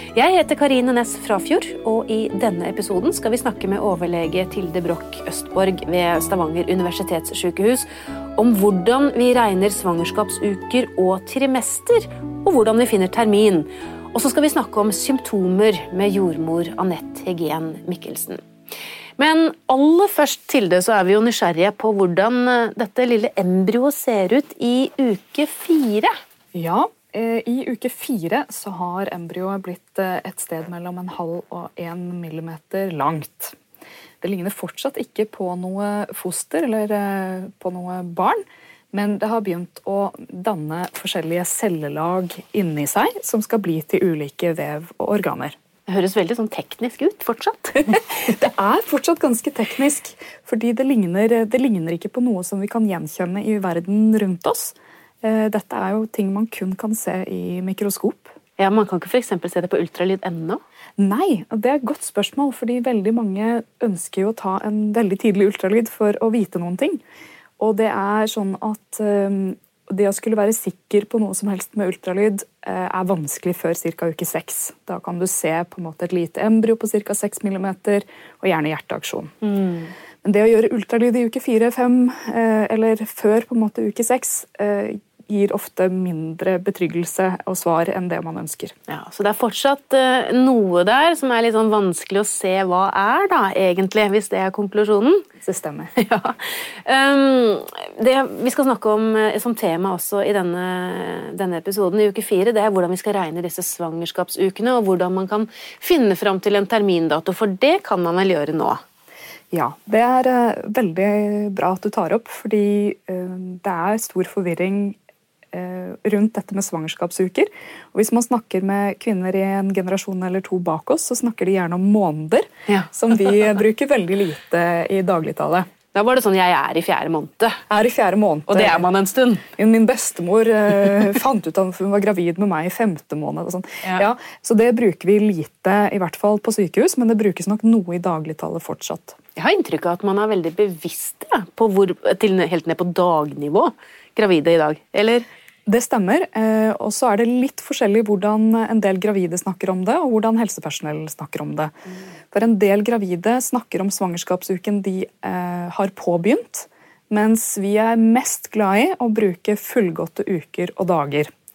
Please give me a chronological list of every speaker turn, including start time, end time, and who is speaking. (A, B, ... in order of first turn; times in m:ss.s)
0:00.1-0:18.4 A
0:19.2-0:26.1 A
0:26.5-0:33.6 B
0:34.2-0:45.6 B
0:45.9-0:48.0 A
0:48.2-0:58.3 B
0:58.6-1:00.6 A
1:01.0-1:07.0 B
1:07.6-1:19.3 B
1:19.4-1:19.9 A
1:20.2-1:28.8 B
1:28.9-1:35.2 A
1:35.4-1:35.9 B
1:36.0-1:48.8 A
1:49.5-1:55.0 B
1:55.5-2:05.7 B
2:05.9-2:07.6 A
2:07.7-2:08.9 B
2:08.5-2:09.4 A
2:09.6-2:19.2 B
2:19.4-2:25.2 A
2:25.7-2:31.7 B
2:32.3-2:41.3 B